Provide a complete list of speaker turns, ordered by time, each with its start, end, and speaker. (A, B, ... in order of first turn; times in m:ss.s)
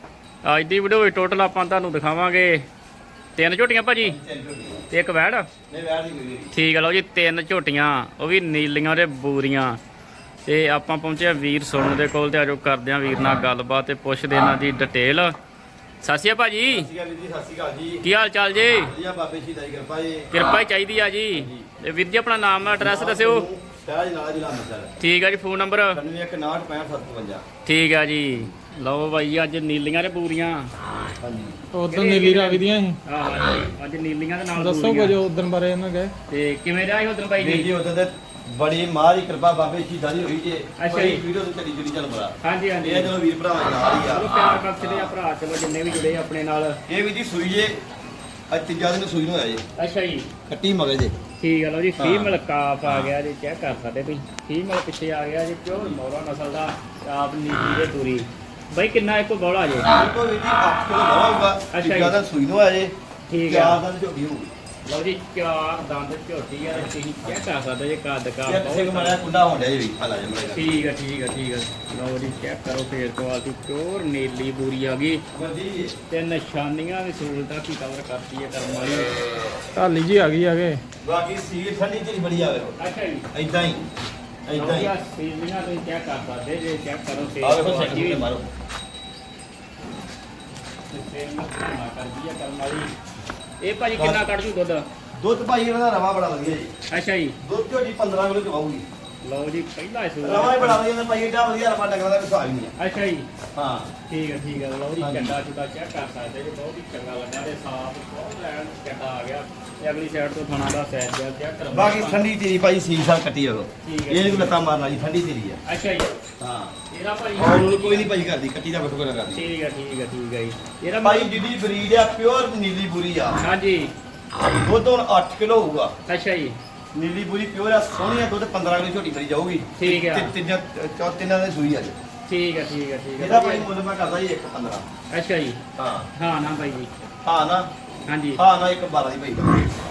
0:00.4-0:02.6 A
0:03.4-0:04.2 A
0:04.0-0:04.8 B
0:04.9-0:05.5 A
0:05.7-0:06.5 B
0:06.5-0:09.8 A
0:10.5-0:15.4 A
0:16.0-0:16.9 A
0:16.7-0:18.0 B
0:18.0-0:18.9 A
0:18.8-0:20.3 B
0:20.3-0:23.5 A
0:21.3-0:21.7 B
0:22.8-0:25.0 B
0:25.0-0:26.0 A
0:25.9-0:27.5 B
0:27.6-0:30.7 A
0:31.2-0:31.6 B
0:31.7-0:33.0 C
0:31.9-0:35.2 A
0:34.6-0:36.1 C
0:36.3-0:37.7 A
0:37.4-0:45.1 B
0:40.8-0:41.2 A
0:42.4-0:43.1 A
0:44.1-0:46.8 A
0:46.9-0:47.8 B
0:48.5-0:49.6 B
0:49.8-0:50.3 A
0:50.5-0:51.2 B
0:51.4-0:59.9 A
0:52.0-0:52.4 B
0:59.9-1:02.9 B
1:01.7-1:02.2 A
1:03.3-1:03.8 A
1:03.5-1:04.5 B
1:04.9-1:09.2 A
1:08.5-1:10.8 B
1:10.5-1:15.2 A
1:15.3-1:16.0 B
1:16.1-1:19.2 A
1:19.8-1:20.8 C
1:21.0-1:22.8 B
1:22.8-1:23.3 A
1:23.3-1:23.8 B
1:24.5-1:24.9 B
1:24.5-1:28.3 A
1:27.4-1:28.5 B
1:30.9-1:32.9 A
1:33.6-1:34.9 A
1:34.0-1:34.2 B
1:35.2-1:36.7 B
1:36.9-1:37.4 A
1:37.4-1:38.9 B
1:39.2-1:40.8 A
1:40.2-1:42.7 B
1:42.8-1:43.3 A
1:43.6-1:43.9 B
1:44.1-1:52.2 A
1:45.0-1:45.4 B
1:51.7-1:55.6 B
1:53.8-1:54.5 A
1:55.7-1:56.2 A
1:56.4-1:56.7 B
1:56.9-1:58.1 A
1:57.4-1:59.5 B
1:59.3-2:01.4 A
2:01.0-2:03.4 B
2:03.4-2:03.9 A
2:04.5-2:05.9 B
2:06.1-2:06.6 A
2:06.9-2:12.0 B
2:09.8-2:10.3 A
2:12.3-2:13.7 A
2:13.2-2:14.9 B
2:15.1-2:15.6 A
2:15.8-2:16.1 B
2:16.1-2:16.9 A
2:17.2-2:17.7 B
2:18.1-2:18.4 A
2:18.4-2:19.8 B